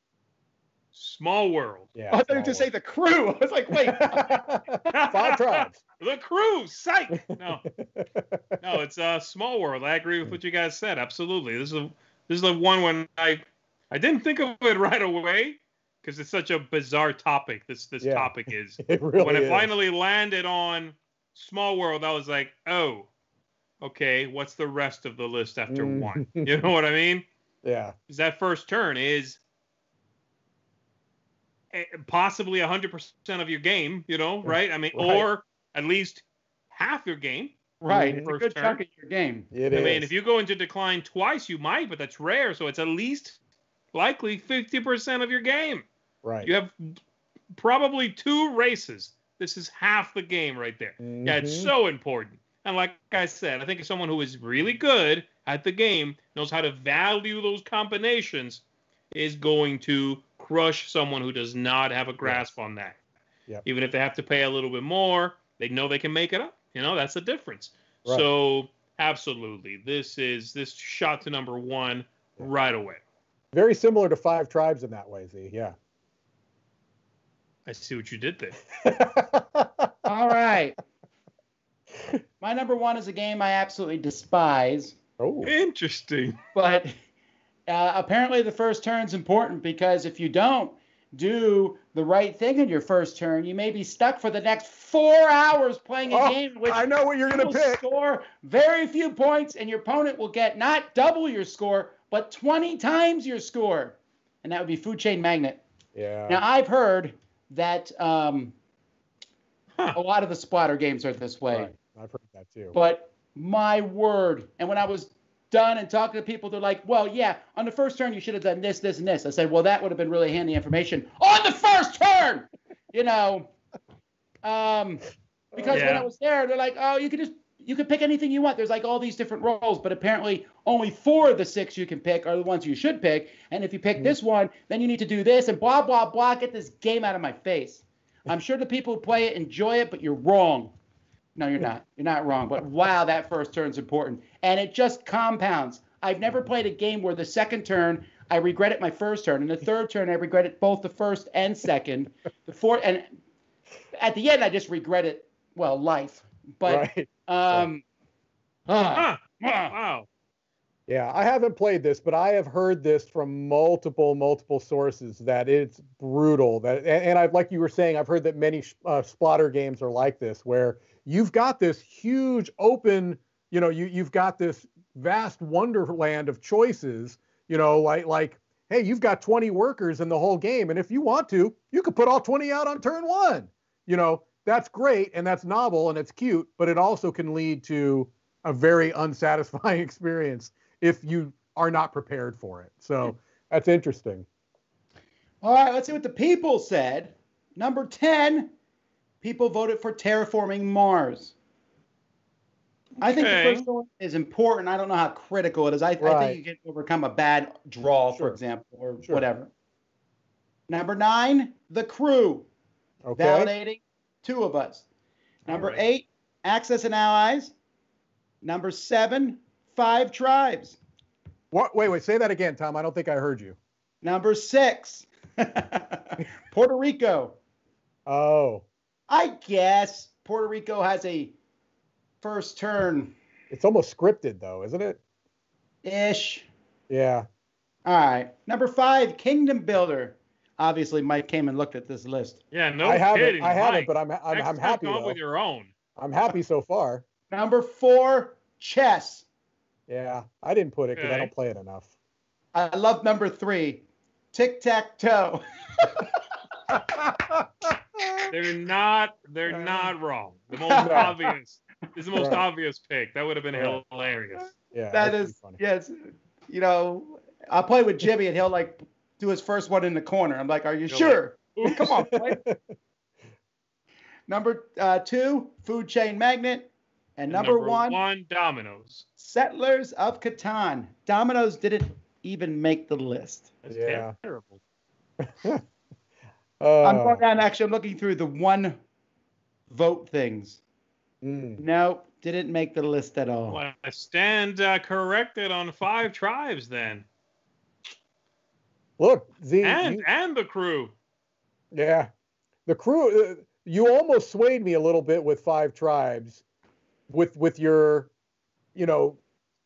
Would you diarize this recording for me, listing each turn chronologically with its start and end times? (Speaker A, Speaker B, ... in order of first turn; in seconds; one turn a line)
Speaker A: 0.9-1.9
Speaker B: 2.0-2.7
Speaker C: 2.1-4.5
Speaker B: 3.7-5.8
Speaker A: 4.9-7.7
Speaker B: 7.3-8.6
Speaker A: 8.6-23.1
Speaker B: 18.0-19.7
Speaker A: 23.8-27.3
Speaker B: 25.7-26.6
Speaker B: 27.6-27.9
Speaker A: 28.1-29.4
Speaker A: 31.7-38.8
Speaker B: 34.5-35.3
Speaker C: 37.8-39.5
Speaker B: 37.9-38.3
Speaker B: 39.5-40.1
Speaker A: 39.7-43.4
Speaker A: 43.9-45.9
Speaker B: 46.2-46.5
Speaker A: 46.4-47.0
Speaker A: 47.5-63.0
Speaker B: 51.0-51.7
Speaker B: 62.2-62.5
Speaker A: 63.6-73.0
Speaker B: 73.5-75.8
Speaker A: 77.7-78.6
Speaker B: 78.8-80.1
Speaker C: 80.0-80.8
Speaker C: 82.4-85.0
Speaker B: 85.2-85.5
Speaker A: 85.4-86.4
Speaker C: 86.5-86.9
Speaker C: 87.7-105.6
Speaker B: 96.1-97.8
Speaker B: 106.0-106.4
Speaker C: 106.3-108.5
Speaker C: 109.9-111.7
Speaker B: 111.5-112.8
Speaker C: 112.7-123.5
Speaker C: 124.4-125.0
Speaker C: 125.5-140.7
Speaker A: 125.7-126.1
Speaker C: 141.4-153.1
Speaker C: 154.0-157.8
Speaker B: 156.7-157.7
Speaker C: 158.7-159.7
Speaker A: 158.9-160.1
Speaker B: 160.9-194.3
Speaker C: 195.4-198.5
Speaker C: 199.2-201.3
Speaker C: 203.0-209.5
Speaker A: 203.0-203.7
Speaker B: 206.0-206.4
Speaker C: 210.7-212.5
Speaker B: 213.0-213.5
Speaker C: 213.2-214.9
Speaker C: 215.5-217.5
Speaker A: 215.5-215.8
Speaker C: 218.4-220.8
Speaker B: 221.5-223.6
Speaker C: 224.0-227.4
Speaker B: 228.1-228.7
Speaker C: 229.1-231.3
Speaker C: 232.2-233.2
Speaker B: 233.5-235.0
Speaker C: 235.8-236.5
Speaker B: 236.9-237.3
Speaker C: 237.9-242.4
Speaker A: 242.5-245.7
Speaker B: 242.8-245.2
Speaker B: 246.0-247.0
Speaker C: 247.3-249.3
Speaker B: 249.9-251.9
Speaker A: 251.0-251.3
Speaker C: 252.5-256.1
Speaker B: 256.7-258.3
Speaker A: 258.3-264.5
Speaker B: 259.5-259.9
Speaker C: 260.5-261.3
Speaker B: 260.8-261.1
Speaker B: 262.2-262.4
Speaker B: 263.6-263.8
Speaker B: 264.5-265.6
Speaker C: 264.9-265.9
Speaker C: 266.5-272.4
Speaker A: 270.9-271.8
Speaker B: 271.7-272.6
Speaker C: 274.3-278.0
Speaker A: 277.3-279.1
Speaker C: 279.2-283.5
Speaker A: 283.6-284.6
Speaker B: 283.7-284.1
Speaker B: 285.2-285.6
Speaker B: 286.6-287.2
Speaker C: 286.8-288.8
Speaker C: 289.7-290.6
Speaker B: 291.2-291.6
Speaker C: 291.6-293.6
Speaker A: 293.5-297.1
Speaker B: 299.0-300.0
Speaker A: 299.6-300.9
Speaker B: 301.7-302.1
Speaker B: 302.7-306.4
Speaker B: 307.1-308.1
Speaker B: 308.8-309.2